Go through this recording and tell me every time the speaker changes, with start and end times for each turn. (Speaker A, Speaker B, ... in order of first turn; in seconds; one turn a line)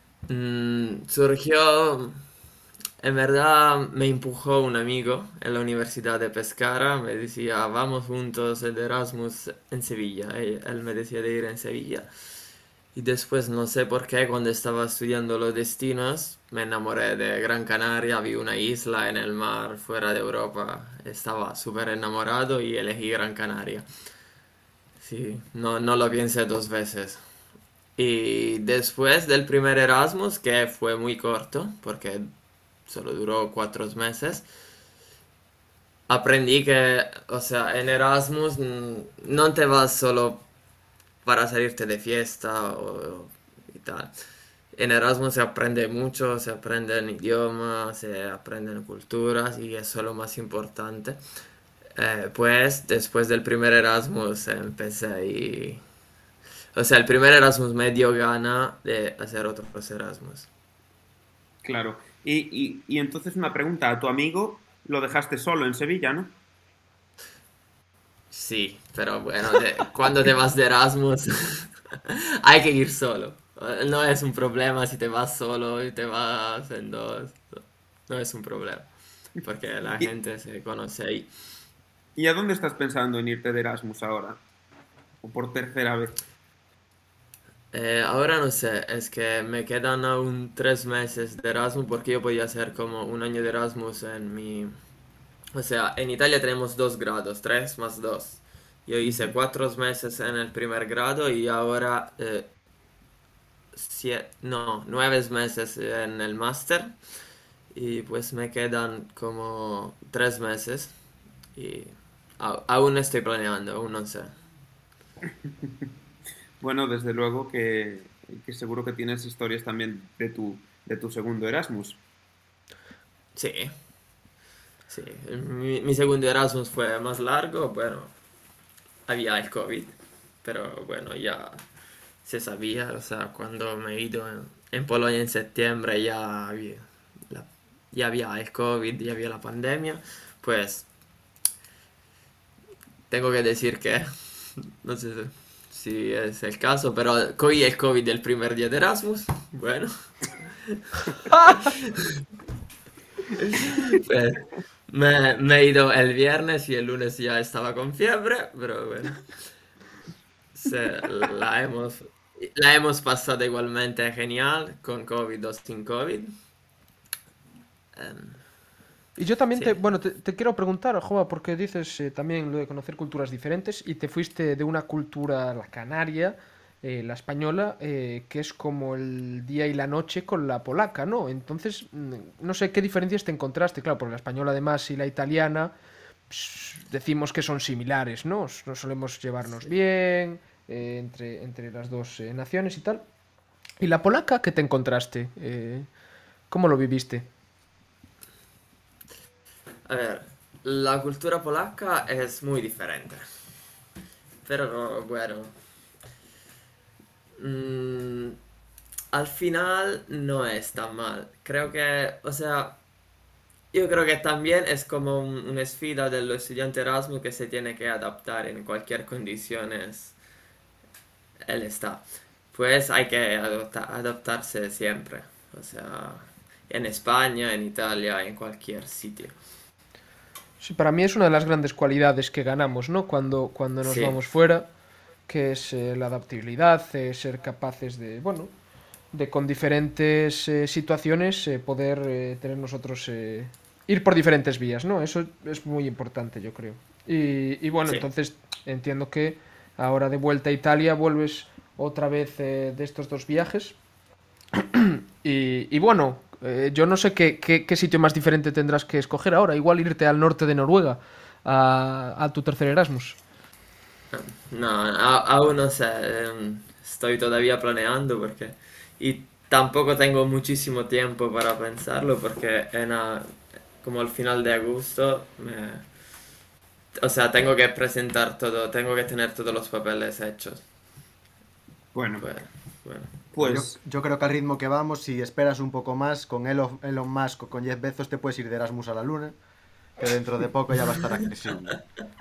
Speaker A: 0.3-2.2
Speaker A: 3.0-12.1
Speaker A: 12.9-23.9
Speaker A: 25.0-27.2
Speaker A: 28.0-32.3
Speaker A: 32.9-34.5
Speaker A: 36.1-40.5
Speaker A: 41.2-44.1
Speaker A: 44.7-51.2
Speaker A: 52.0-55.8
Speaker A: 56.8-60.5
Speaker B: 61.6-66.3
Speaker A: 68.3-78.9
Speaker A: 79.4-81.3
Speaker B: 82.2-84.4
Speaker B: 85.2-86.2
Speaker A: 87.7-94.7
Speaker A: 95.5-102.5
Speaker B: 99.0-99.3
Speaker A: 103.8-107.0
Speaker A: 107.7-111.0
Speaker A: 111.6-114.4
Speaker B: 116.6-122.0
Speaker A: 123.3-123.7
Speaker A: 124.9-128.1
Speaker A: 129.1-129.9
Speaker A: 130.4-131.6
Speaker A: 132.2-140.9
Speaker A: 143.1-152.2
Speaker A: 153.3-159.3
Speaker A: 160.6-166.3
Speaker A: 167.9-168.4
Speaker C: 169.2-185.7
Speaker A: 169.5-169.8
Speaker C: 186.3-193.0
Speaker C: 193.8-195.9
Speaker C: 196.5-197.3
Speaker A: 199.9-203.3
Speaker A: 204.4-205.6
Speaker A: 207.4-208.4
Speaker A: 209.1-212.8
Speaker A: 213.7-220.2
Speaker A: 221.4-229.4
Speaker C: 230.6-234.7
Speaker A: 233.8-234.2
Speaker C: 235.3-238.5
Speaker C: 239.1-253.8
Speaker C: 254.6-263.2
Speaker A: 264.1-275.9
Speaker A: 277.0-280.6
Speaker B: 281.9-282.3
Speaker A: 282.2-283.2
Speaker B: 283.3-283.8
Speaker D: 283.4-289.4
Speaker D: 290.0-291.8